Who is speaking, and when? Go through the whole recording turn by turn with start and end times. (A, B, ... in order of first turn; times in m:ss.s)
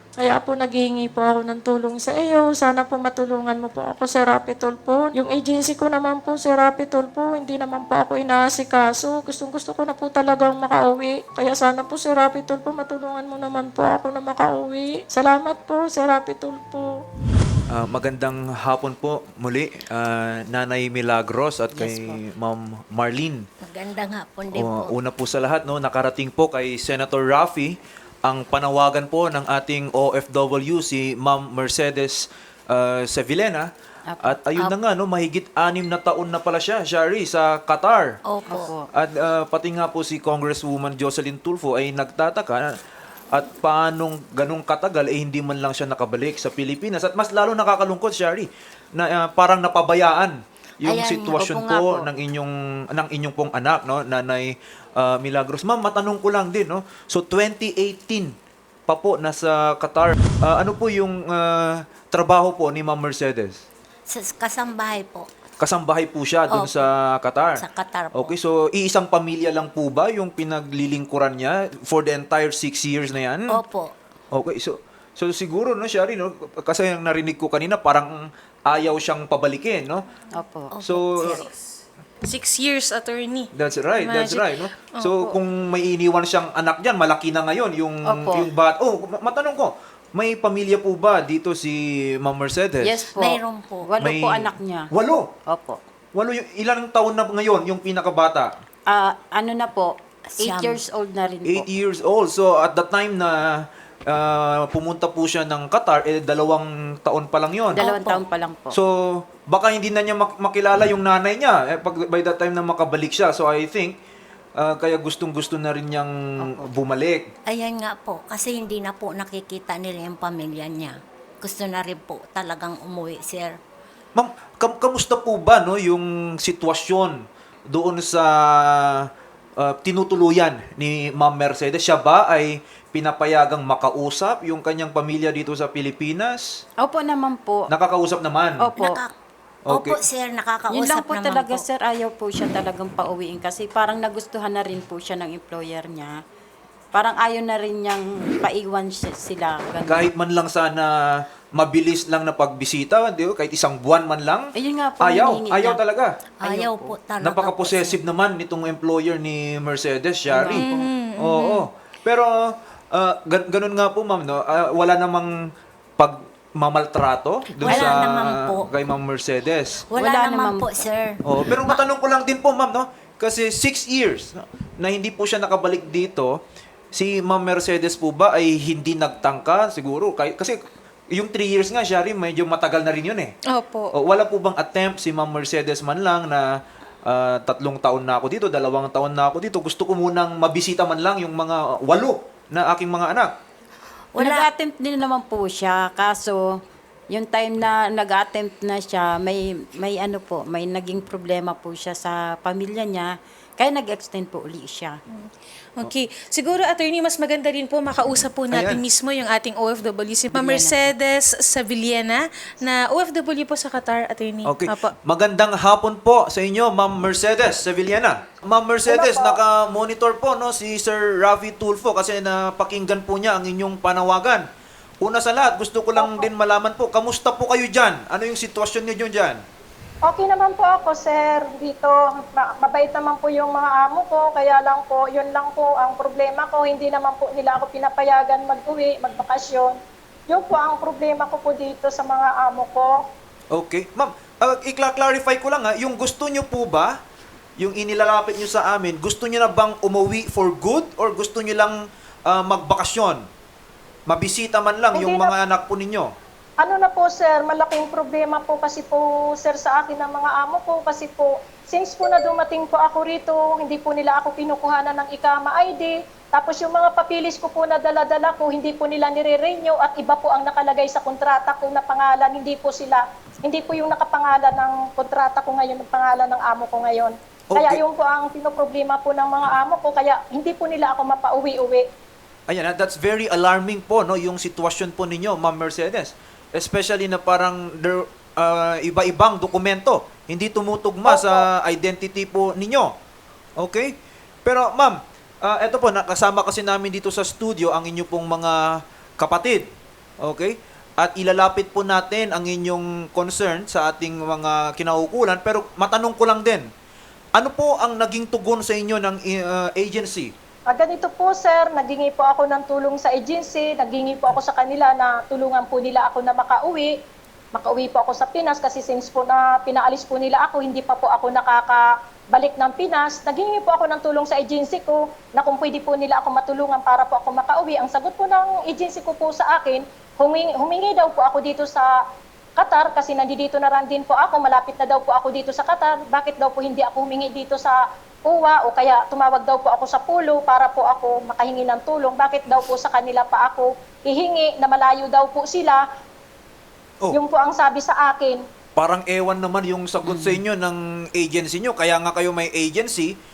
0:00.2-0:17.0 A
0:17.7-0:23.4 B
0:21.7-0:22.2 C
0:23.6-0:24.9 D
0:24.5-0:33.7 B
0:34.1-0:34.5 C
0:34.2-0:38.2 B
0:38.2-0:38.7 D
0:38.4-0:38.8 C
0:38.9-0:42.7 B
0:43.3-0:58.3 B
0:50.8-0:51.9 D
0:51.4-0:52.1 C
0:58.9-1:03.6 B
1:04.1-1:05.3 D
1:05.6-1:13.6 B
1:06.5-1:06.8 D
1:07.6-1:08.3 D
1:13.5-1:13.9 D
1:14.3-1:20.0 B
1:20.3-1:21.1 C
1:20.8-1:21.4 B
1:21.1-1:21.5 D
1:22.2-1:25.4 E
1:23.5-1:33.1 B
1:28.0-1:28.5 C
1:32.8-1:34.9 C
1:33.2-1:33.8 D
1:34.0-1:35.3 B
1:35.5-1:35.8 C
1:36.1-1:38.5 B
1:38.9-1:41.7 C
1:40.3-1:40.8 D
1:41.4-1:47.8 B
1:47.7-1:48.8 C
1:47.8-1:48.2 D
1:48.7-1:54.0 B
1:54.6-1:57.3 B
1:56.4-1:56.7 C
1:57.5-2:03.6 D
2:04.1-2:07.2 B
2:07.7-2:16.6 B
2:16.8-2:17.7 C
2:17.7-2:18.7 B
2:18.6-2:19.0 C
2:19.6-2:20.0 B
2:19.7-2:21.6 D
2:20.7-2:26.1 C
2:26.9-2:30.0 C
2:29.8-2:30.9 B
2:31.5-2:36.2 B
2:34.6-2:35.8 C
2:36.4-2:37.0 C
2:36.4-2:38.0 D
2:37.2-2:42.3 B
2:40.3-2:40.9 C
2:40.6-2:41.7 E
2:42.9-2:45.3 B
2:46.0-2:49.8 B
2:47.6-2:48.7 D
2:47.7-2:47.9 C
2:49.9-2:51.8 D
2:50.0-2:50.8 C
2:51.2-2:56.3 B
2:56.9-3:00.6 B
3:01.1-3:03.3 B
3:03.5-3:03.9 E
3:03.9-3:06.4 B
3:07.0-3:13.3 B
3:14.1-3:14.5 D
3:14.2-3:24.9 C
3:25.1-3:34.9 E
3:28.5-3:28.8 B
3:30.3-3:30.9 C
3:34.4-3:44.4 B
3:38.9-3:39.4 F
3:45.0-3:49.4 B
3:46.0-3:46.3 F
3:50.0-3:59.8 F
4:00.3-4:03.0 F
4:03.5-4:06.9 B
4:07.6-4:11.7 B
4:12.3-4:13.2 B
4:14.1-4:16.1 B
4:14.9-4:15.3 F
4:16.6-4:41.8 F
4:37.5-4:37.8 B
4:42.5-4:52.9 B
4:51.0-4:51.4 F
4:53.6-4:53.9 B
4:54.4-4:59.6 B
5:00.2-5:06.6 B
5:07.4-5:10.3 B
5:10.7-5:16.9 F
5:17.5-5:31.9 F
5:32.6-5:45.8 F
5:47.1-5:48.4 F
5:48.8-5:53.1 B
5:50.0-5:50.4 C